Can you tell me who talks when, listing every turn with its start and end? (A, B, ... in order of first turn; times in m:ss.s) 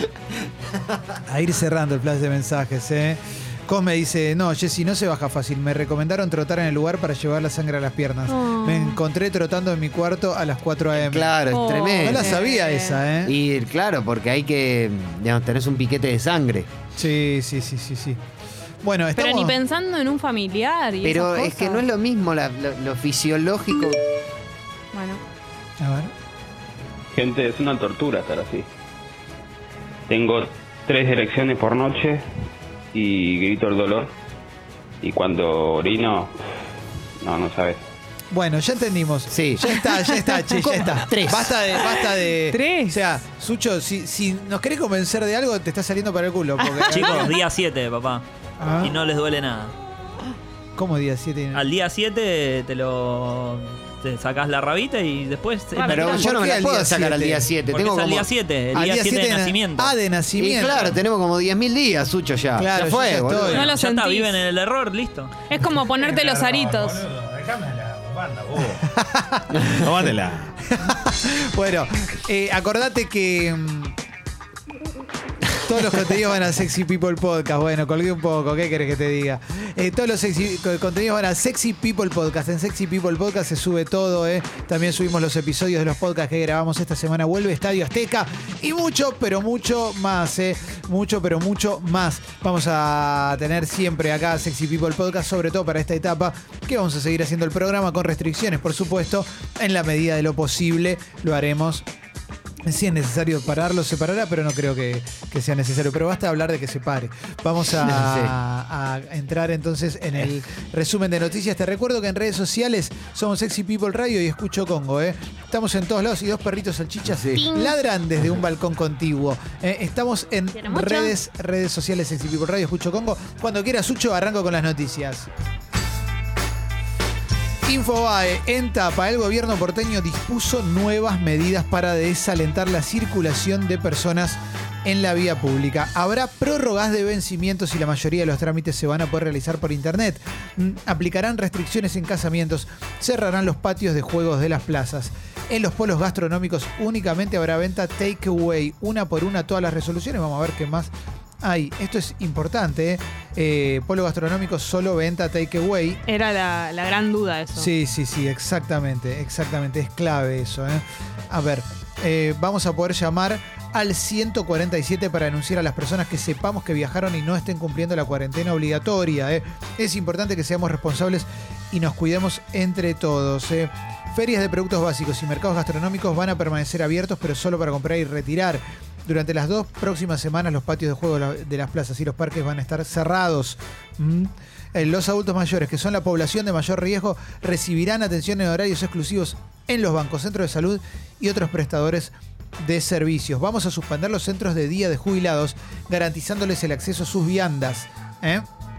0:01.2-0:11.4 A
0:08.3-0:09.0 B
0:10.9-0:12.4 C
0:11.5-0:13.0 B
0:12.0-0:13.4 A
0:13.2-0:16.7 C
0:17.0-0:18.2 A
0:18.8-0:19.6 A
0:19.2-0:21.8 B
0:21.0-0:24.0 C
0:24.9-0:25.2 B
0:25.8-0:26.1 A
0:27.1-0:28.7 D
0:30.1-0:32.2 D
0:32.9-0:34.1 D
0:35.0-0:36.3 D
0:37.2-0:37.8 D
0:38.3-0:47.3 A
0:39.3-0:39.6 C
0:39.8-0:40.6 B
0:40.6-0:41.6 C
0:42.5-0:43.0 B
0:46.6-0:47.3 B
0:46.9-0:48.2 E
0:48.6-0:48.9 A
0:48.8-0:49.7 E
0:50.8-0:51.6 A
0:51.5-0:56.2 E
0:55.7-0:56.2 B
0:55.8-0:58.2 C
0:56.0-0:57.5 A
0:57.7-0:59.9 E
0:58.7-1:00.9 A
1:00.4-1:03.6 C
1:02.6-1:03.7 A
1:03.5-1:05.3 E
1:03.5-1:04.3 B
1:05.5-1:07.0 B
1:06.0-1:08.9 F
1:09.0-1:09.6 A
1:09.6-1:10.5 F
1:10.8-1:14.0 A
1:15.6-1:41.8 A
1:42.6-2:05.3 A
1:47.8-1:48.3 C
1:57.0-1:57.4 C
1:57.4-1:57.8 B
2:00.5-2:01.1 B
2:07.6-2:36.0 A
2:36.1-2:37.7 B
2:37.6-3:18.4 A